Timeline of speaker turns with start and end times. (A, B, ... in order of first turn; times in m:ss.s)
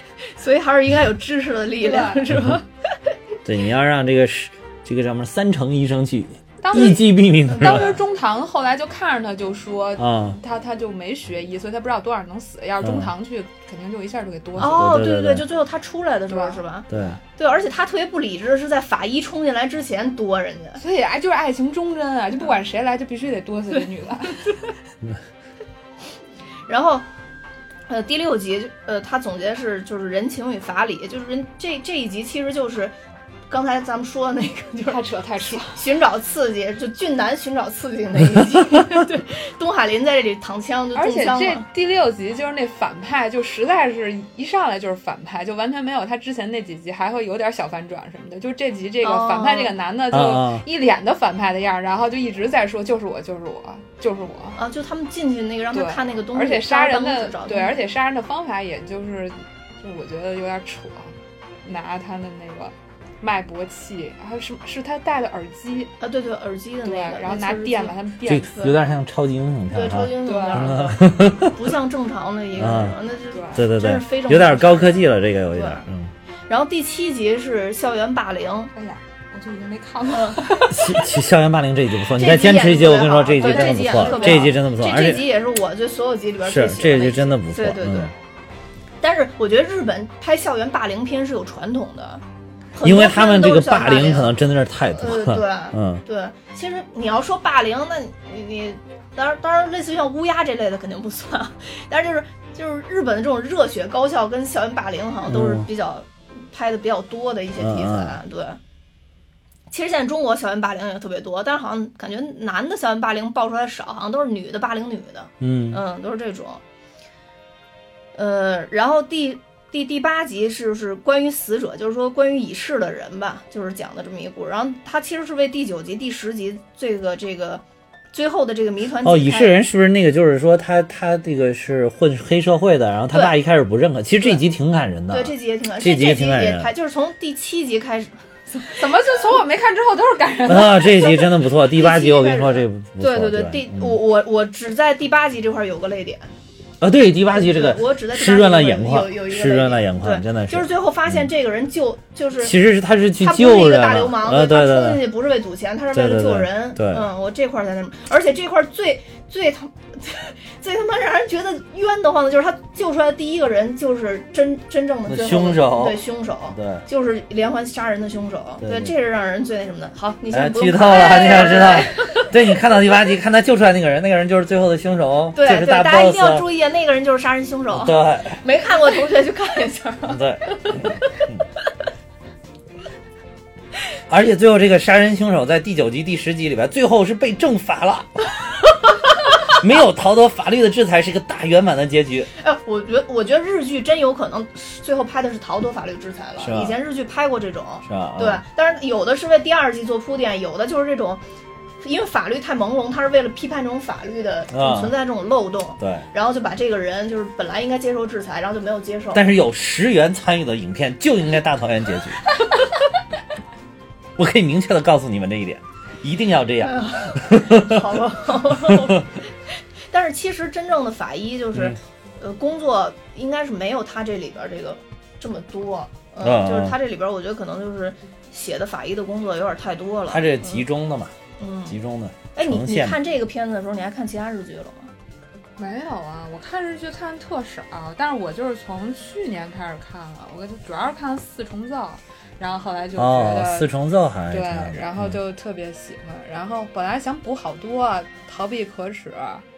0:00.3-0:02.6 A
0:01.8-0:02.4 B
0:03.4-0:08.0 C
0:06.6-0:14.8 B
0:07.5-0:08.0 A
0:10.0-0:10.4 C
0:12.8-0:13.1 C
0:14.6-0:15.4 C
0:14.6-0:20.8 A
0:16.3-0:16.6 B
0:16.9-0:17.2 C
0:20.8-0:24.7 B
0:26.7-0:27.1 A
0:27.9-0:32.9 A
0:33.5-0:41.6 A
0:34.9-0:35.9 B
0:41.0-0:54.6 B
0:49.0-0:49.8 A
0:50.1-0:50.6 C
0:54.6-0:57.8 A
0:55.7-1:06.0 B
1:06.0-1:08.0 A
1:06.8-1:08.7 B
1:08.3-1:11.7 C
1:09.7-1:15.9 A
1:10.2-1:10.8 B
1:12.6-1:13.0 C
1:13.3-1:13.7 B
1:13.5-1:16.1 C
1:16.5-1:18.7 A
1:18.7-1:21.1 B
1:20.1-1:20.5 A
1:20.7-1:25.3 C
1:22.1-1:28.1 A
1:23.4-1:24.6 B
1:26.4-1:28.1 C
1:29.0-1:32.2 A
1:32.8-1:34.4 A
1:32.8-1:36.0 C
1:34.9-1:48.6 A
1:45.3-1:45.7 C
1:47.6-1:48.2 C
1:49.7-1:56.6 A
1:55.4-1:55.8 C
1:58.2-2:09.6 A
2:09.0-2:16.7 C
2:13.1-2:13.4 A
2:15.1-2:18.8 A
2:18.6-2:21.2 B
2:20.5-2:24.0 C
2:21.6-2:26.3 A
2:26.8-2:31.3 C
2:27.3-2:32.6 A
2:32.4-2:35.0 C
2:33.2-2:52.3 A
2:35.9-2:37.1 C
2:45.1-2:46.8 C
2:48.6-2:48.9 C
2:50.3-2:56.5 C
2:55.3-3:00.9 A
2:57.7-2:58.4 C
3:00.1-3:01.4 C
3:04.1-3:08.2 C
3:08.8-3:12.3 C
3:12.4-3:21.2 A
3:16.4-3:16.8 C
3:17.8-3:18.4 C
3:21.8-3:29.2 A
3:24.5-3:24.9 C
3:25.8-3:26.1 C
3:29.1-3:32.3 C
3:34.2-3:37.9 C
3:36.6-3:39.2 A
3:38.4-3:39.0 C
3:39.9-3:50.7 A
3:46.2-3:46.8 C
3:50.1-3:51.2 C
3:51.4-3:51.8 A
3:51.7-3:53.0 C
3:52.4-3:54.9 A
3:55.6-4:03.7 B
4:03.0-4:05.2 C
4:04.3-4:09.4 B